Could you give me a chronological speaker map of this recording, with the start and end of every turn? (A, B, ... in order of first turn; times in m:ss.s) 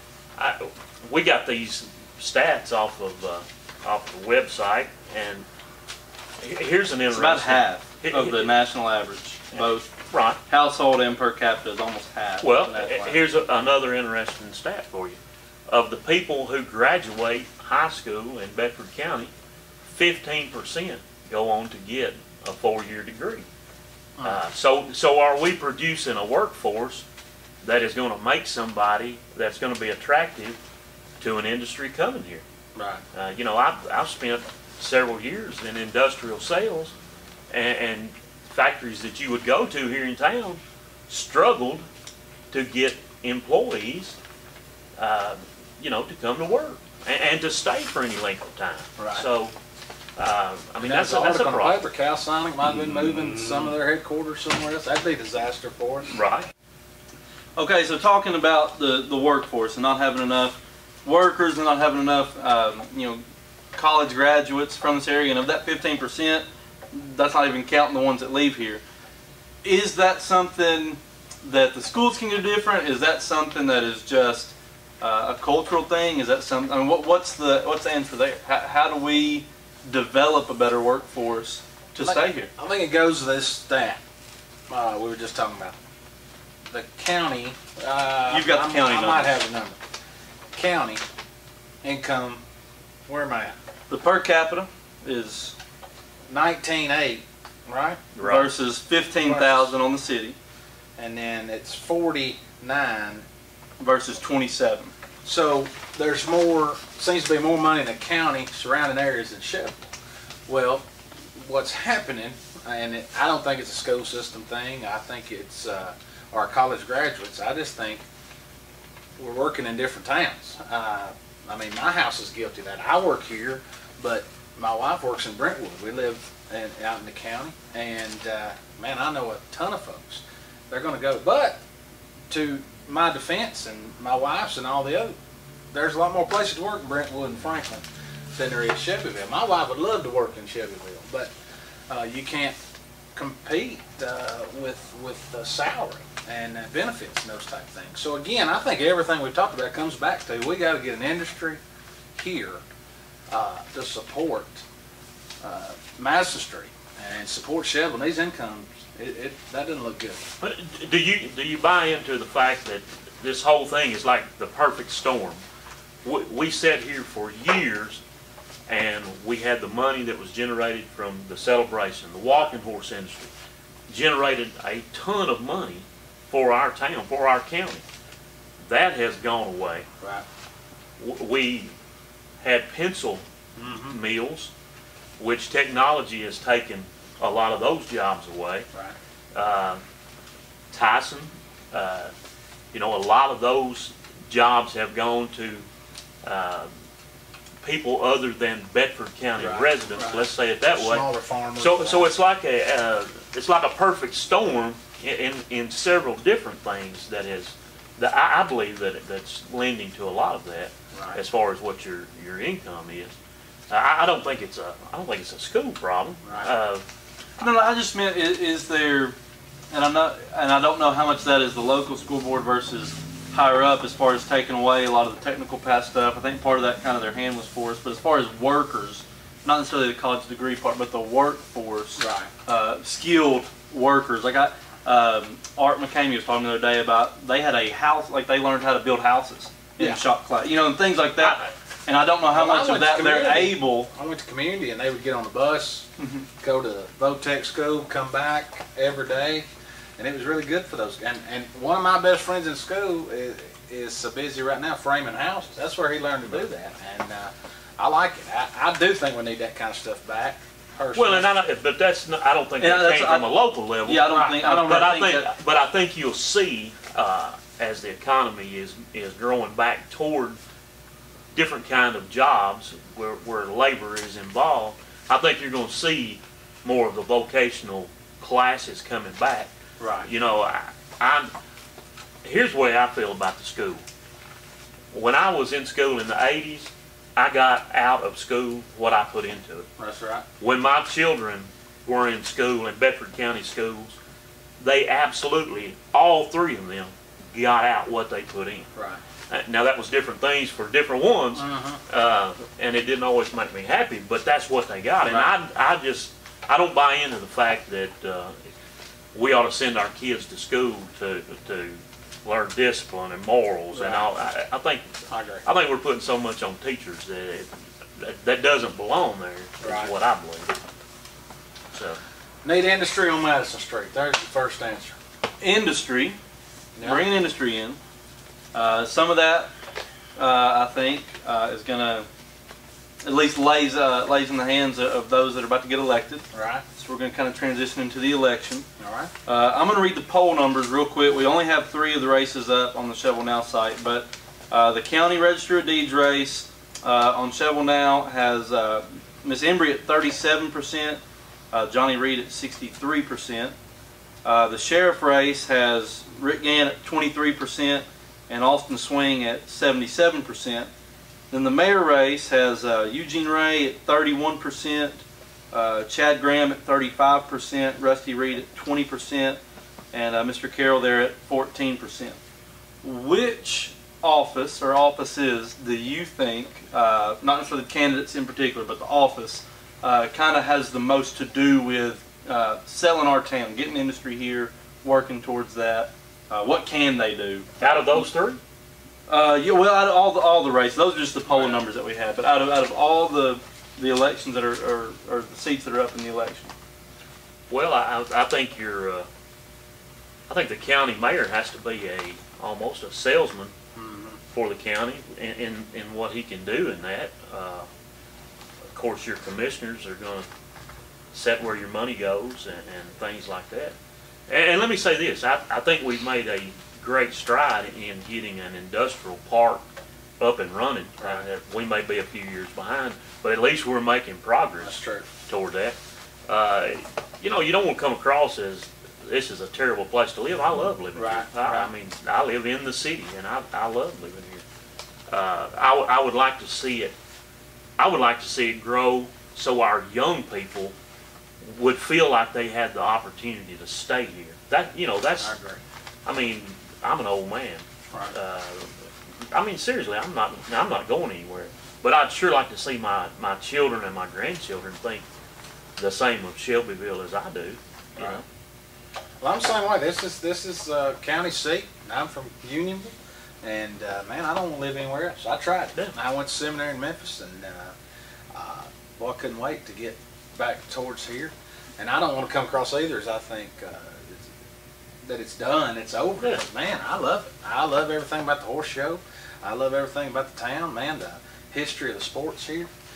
0:00.4-0:05.4 A
0:06.4-0:08.5 A
0:07.1-0:09.9 B
0:09.5-0:10.4 A
0:10.4-0:13.2 B
0:12.4-0:19.3 A
0:19.9-0:23.4 A
0:24.2-0:24.4 C
0:24.2-0:27.0 A
0:27.6-0:30.6 A
0:31.2-0:32.4 A
0:32.8-0:33.0 C
0:33.1-0:36.9 A
0:37.5-0:41.8 A
0:42.5-0:44.2 A
0:45.0-0:49.5 A
0:49.0-0:49.2 C
0:50.2-0:51.8 A
0:50.8-0:56.1 C
0:52.8-0:53.7 B
0:56.1-0:56.5 A
0:57.6-1:03.2 B
1:03.7-1:08.8 B
1:09.6-1:22.5 B
1:22.0-1:24.0 C
1:24.7-1:25.8 C
1:26.7-1:29.8 C
1:28.3-1:29.4 B
1:30.5-1:31.0 C
1:31.8-1:32.4 C
1:33.0-1:33.5 C
1:33.9-1:35.5 B
1:36.3-1:38.0 C
1:38.1-1:38.5 A
1:38.2-1:40.4 B
1:39.2-1:39.7 C
1:41.0-1:43.2 C
1:43.8-1:44.9 B
1:45.2-1:49.8 C
1:50.5-1:50.8 C
1:51.4-1:58.0 C
1:59.2-2:11.6 C
2:12.3-2:15.1 C
2:15.7-2:21.3 C
2:21.9-2:22.6 C
2:23.1-2:31.6 C
2:32.1-2:32.6 C
2:33.3-2:34.6 C
2:35.4-2:40.2 C
2:40.4-2:45.4 A
2:46.0-2:48.0 A
2:48.7-2:53.3 A
2:53.9-2:57.8 A
2:58.6-2:59.8 A
3:01.0-3:01.7 A
3:02.4-3:03.2 A
3:03.6-3:04.0 C
3:03.8-3:04.5 A
3:05.2-3:08.6 A
3:09.3-3:09.8 A
3:10.7-3:12.1 A
3:12.7-3:15.6 A
3:16.2-3:16.7 A
3:17.6-3:33.1 A
3:19.4-3:22.1 C
3:30.9-3:31.2 C
3:33.7-3:36.8 A
3:36.2-3:36.5 C
3:37.4-3:39.1 B
3:39.7-4:03.9 B
3:52.0-3:52.3 C
4:01.2-4:01.5 A
4:02.3-4:05.9 C
4:06.0-4:06.3 B
4:06.4-4:09.4 C
4:10.0-4:21.3 C
4:20.9-4:30.4 A
4:22.6-4:23.3 B
4:23.8-4:25.3 B
4:24.0-4:24.8 C
4:31.3-4:39.5 A
4:39.8-4:40.1 C
4:40.0-4:41.3 A
4:42.2-4:43.8 A
4:44.9-4:49.7 A
4:49.8-4:50.2 C
4:50.4-4:54.0 A
4:54.6-4:58.7 A
4:58.8-4:59.0 C
4:59.3-5:08.3 A
5:01.3-5:01.8 C
5:05.0-5:05.3 C
5:09.1-5:20.5 A
5:13.7-5:14.1 C
5:15.1-5:15.4 C
5:19.6-5:19.9 C
5:21.7-5:22.0 A
5:22.4-5:24.9 C
5:25.4-5:26.2 B
5:26.8-5:27.0 C
5:26.8-5:27.8 B
5:28.5-5:29.5 B
5:30.2-5:32.1 B
5:33.0-5:38.6 B
5:36.3-5:36.6 C
5:38.8-5:39.1 C
5:39.2-5:51.0 B
5:51.5-5:53.5 B
5:54.2-6:00.7 B
6:01.3-6:09.4 B
6:09.9-6:12.2 B
6:12.8-6:28.1 B
6:27.6-6:28.4 A
6:29.1-6:36.5 B
6:31.3-6:31.6 C
6:37.5-6:39.1 A
6:40.3-6:43.5 A
6:43.8-6:44.2 C
6:44.3-6:47.6 A
6:48.7-6:50.2 A
6:51.1-6:53.7 A
6:54.3-6:59.6 A
7:00.2-7:05.8 A
7:01.0-7:01.3 C
7:04.6-7:05.1 C
7:06.3-7:14.4 A
7:10.9-7:11.7 C
7:15.1-7:16.9 A
7:17.8-7:20.7 A
7:21.4-7:25.3 A
7:25.2-7:25.6 C
7:26.0-7:35.0 A
7:35.8-7:38.2 A
7:39.2-7:47.7 C
7:48.3-7:54.3 C
7:55.0-8:02.7 C